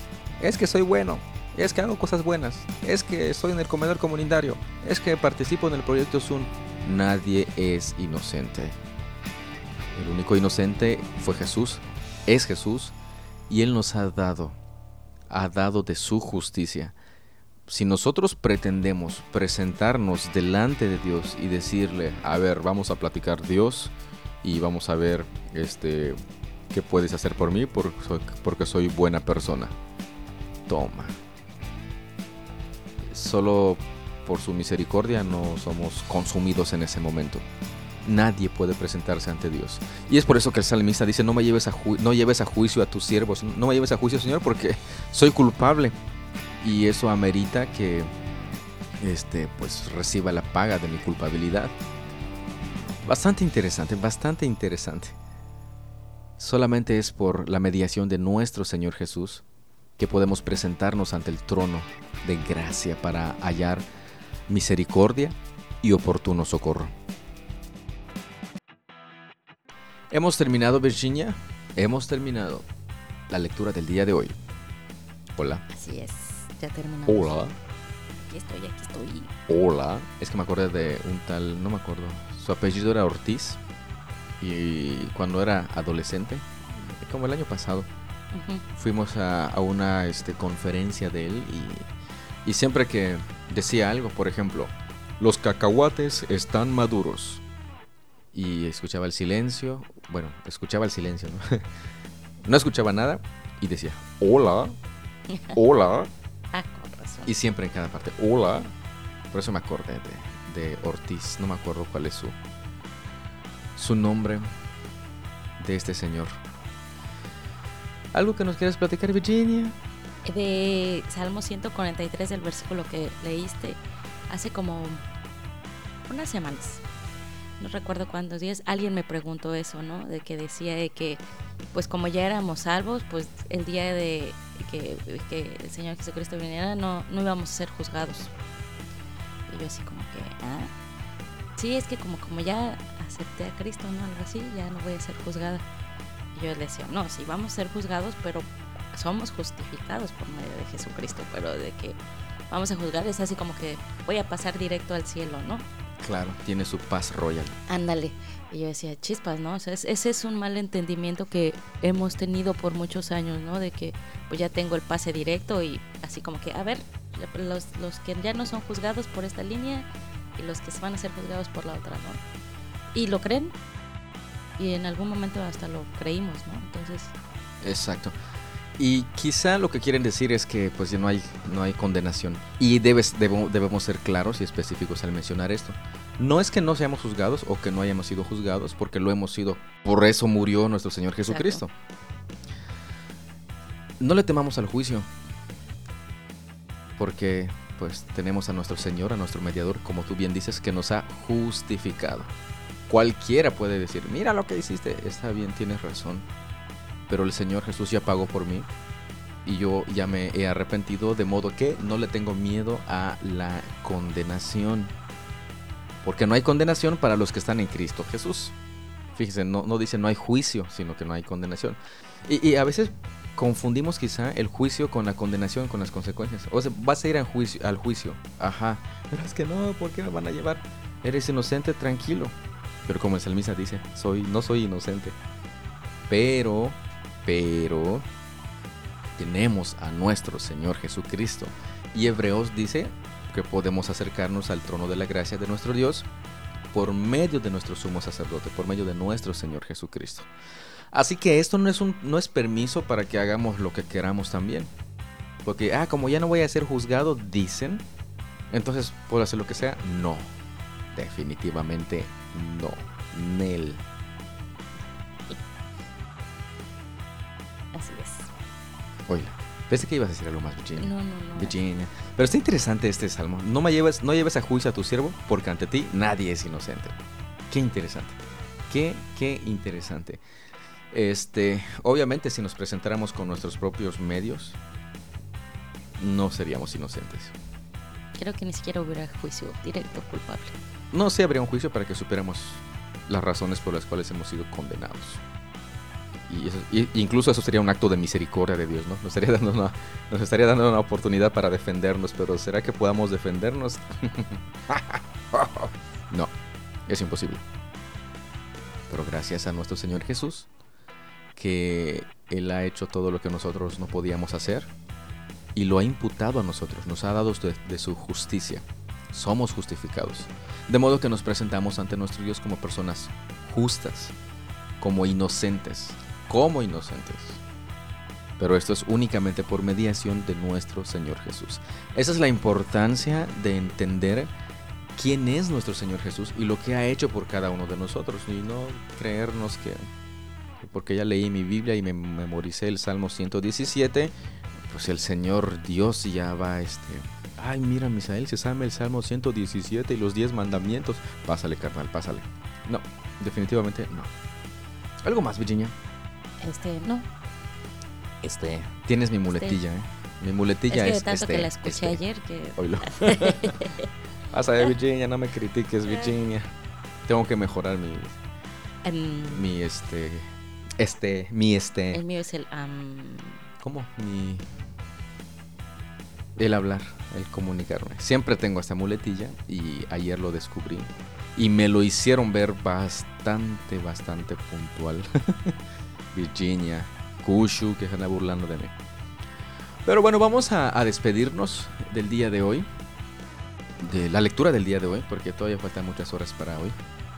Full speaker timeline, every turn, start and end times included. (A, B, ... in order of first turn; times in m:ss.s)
0:00.4-0:08.8 A
0:09.9-0:12.9 A
0:13.5-0:14.6 A
0:15.3-0:16.9 A
0:17.7-0:26.2 A
0:26.7-0:29.8 A
0:30.7-0:31.2 A
0:33.1-0:37.4 A
0:38.0-0:46.0 A
0:46.6-0:48.1 A
0:49.0-0:51.7 A
0:53.0-0:55.2 A
0:56.4-0:59.4 A
1:00.0-1:03.8 A
1:04.5-1:06.9 A
1:10.1-1:12.6 A
1:13.3-1:14.3 A
1:15.4-1:15.6 A
1:15.7-1:17.4 B
1:17.1-1:17.5 A
1:18.2-1:19.3 B
1:19.5-1:23.6 A
1:24.4-1:27.9 A
1:28.3-1:28.6 B
1:28.7-1:31.9 A
1:32.4-1:37.4 A
1:38.3-1:41.6 A
1:42.4-1:44.8 A
1:45.3-1:45.6 B
1:45.5-1:46.1 A
1:46.5-1:47.3 B
1:47.2-1:48.7 A
1:49.3-1:52.4 A
1:53.8-1:54.5 A
1:55.6-1:56.4 A
1:58.1-1:59.8 A
2:00.2-2:05.0 B
2:06.1-2:06.8 B
2:07.6-2:11.2 B
2:11.7-2:18.3 B
2:19.5-2:20.7 B
2:21.6-2:25.6 B
2:26.3-2:35.6 B
2:36.0-2:37.6 A
2:37.7-2:52.2 B
2:52.9-2:53.6 B
2:54.6-2:57.1 B
2:57.6-2:58.1 A
2:58.8-3:11.7 A
3:11.2-3:11.6 B
3:14.0-3:15.1 A
3:17.0-3:22.3 A
3:22.9-3:26.2 A
3:27.1-3:28.7 A
3:29.4-3:34.9 A
3:36.0-3:38.5 A
3:39.1-3:52.3 A
3:52.8-3:55.2 A
3:56.1-3:58.1 A
3:59.2-4:06.1 A
4:06.7-4:10.3 A
4:10.9-4:14.7 A
4:15.4-4:17.8 A
4:18.5-4:20.3 A
4:20.9-4:23.8 A
4:27.7-4:28.3 B
4:29.1-4:37.0 A
4:30.8-4:31.6 B
4:37.5-4:38.2 A
4:38.7-4:40.2 A
4:40.9-4:44.6 A
4:46.0-4:47.3 A
4:48.1-4:50.6 B
4:50.9-4:55.2 A
4:56.3-5:06.3 A
5:06.9-5:07.4 A
5:08.9-5:10.5 A
5:11.4-5:14.7 A
5:15.5-5:24.1 A
5:24.8-5:27.4 A
5:28.4-5:34.3 A
5:35.0-5:39.9 A
5:40.6-5:44.1 A
5:44.7-5:54.1 A
5:55.0-5:55.7 A
5:56.4-5:57.1 B
5:58.2-6:02.0 A
5:59.3-5:59.6 B
6:00.7-6:03.9 B
6:02.6-6:03.7 A
6:04.3-6:06.5 A
6:07.1-6:08.2 A
6:08.8-6:09.5 B
6:09.2-6:10.3 A
6:10.8-6:12.0 A
6:11.9-6:13.4 B
6:13.6-6:14.4 A
6:16.4-6:25.6 A
6:26.1-6:28.7 A
6:29.8-6:32.7 A
6:33.8-6:36.8 A